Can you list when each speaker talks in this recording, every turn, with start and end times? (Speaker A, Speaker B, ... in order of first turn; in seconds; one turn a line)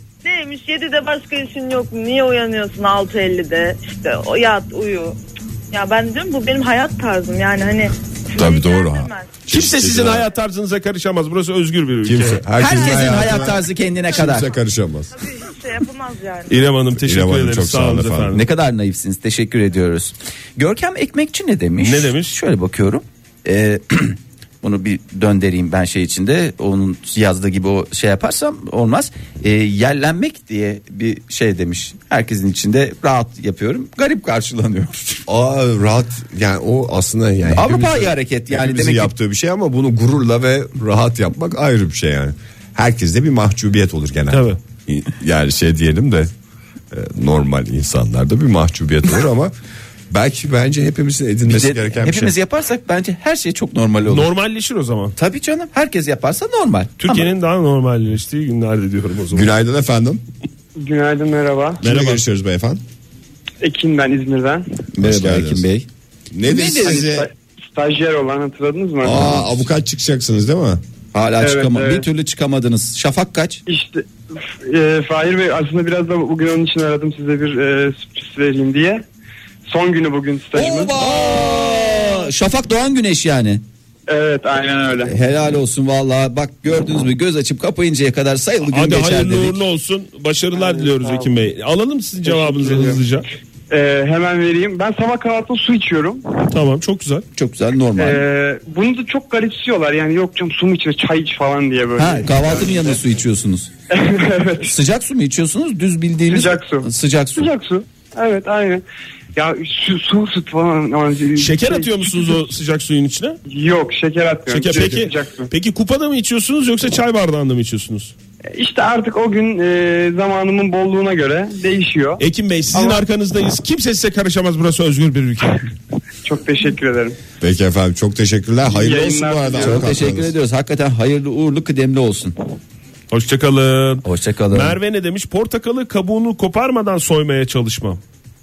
Speaker A: 0.2-5.2
Speaker A: 5.7-9.3
Speaker B: 8.3-10.2
Speaker C: 9.5-12.4
Speaker B: 12.0-15.1
Speaker D: 12.6-14.5
Speaker A: 15.2-16.6
Speaker C: 16.5-18.4
Speaker B: 16.9-18.4
Speaker D: 18.3-35.2
Speaker C: 21.8-22.3
Speaker B: 35.3-46.3
Speaker D: 37.5-39.1
Speaker C: 44.3-44.6
Speaker B: 46.9-49.5
Speaker B: 50.1-52.3
Speaker D: 51.5-54.3
Speaker C: 54.1-55.1
Speaker D: 55.1-57.3
Speaker C: 57.0-59.5
Speaker B: 59.3-60.2
Speaker E: 60.8-61.8
Speaker B: 61.8-62.8
Speaker C: 61.8-62.2
Speaker E: 63.6-64.7
Speaker D: 64.9-65.9
Speaker B: 65.0-65.7
Speaker B: 66.3-67.3
Speaker D: 66.4-67.1
Speaker E: 66.7-69.3
Speaker B: 69.0-70.8
Speaker D: 71.1-73.6
Speaker E: 71.4-72.1
Speaker E: 73.7-79.0
Speaker E: 79.7-81.2
Speaker D: 80.5-83.6
Speaker E: 84.1-85.1
Speaker D: 85.0-89.6
Speaker C: 88.7-93.2
Speaker E: 90.5-91.3
Speaker E: 92.2-93.0
Speaker E: 93.7-96.5
Speaker C: 96.5-97.2
Speaker D: 97.3-98.2
Speaker E: 98.0-103.0
Speaker D: 102.0-103.7
Speaker E: 103.9-104.7
Speaker D: 104.6-107.5
Speaker E: 106.3-108.8
Speaker E: 109.3-112.5
Speaker C: 111.4-113.4
Speaker E: 113.5-115.5
Speaker C: 114.5-118.1
Speaker E: 118.5-123.0
Speaker C: 122.2-125.7
Speaker E: 126.2-127.2
Speaker B: 127.4-130.3
Speaker E: 128.6-129.8
Speaker D: 129.6-132.3
Speaker C: 133.1-138.0
Speaker D: 134.0-134.8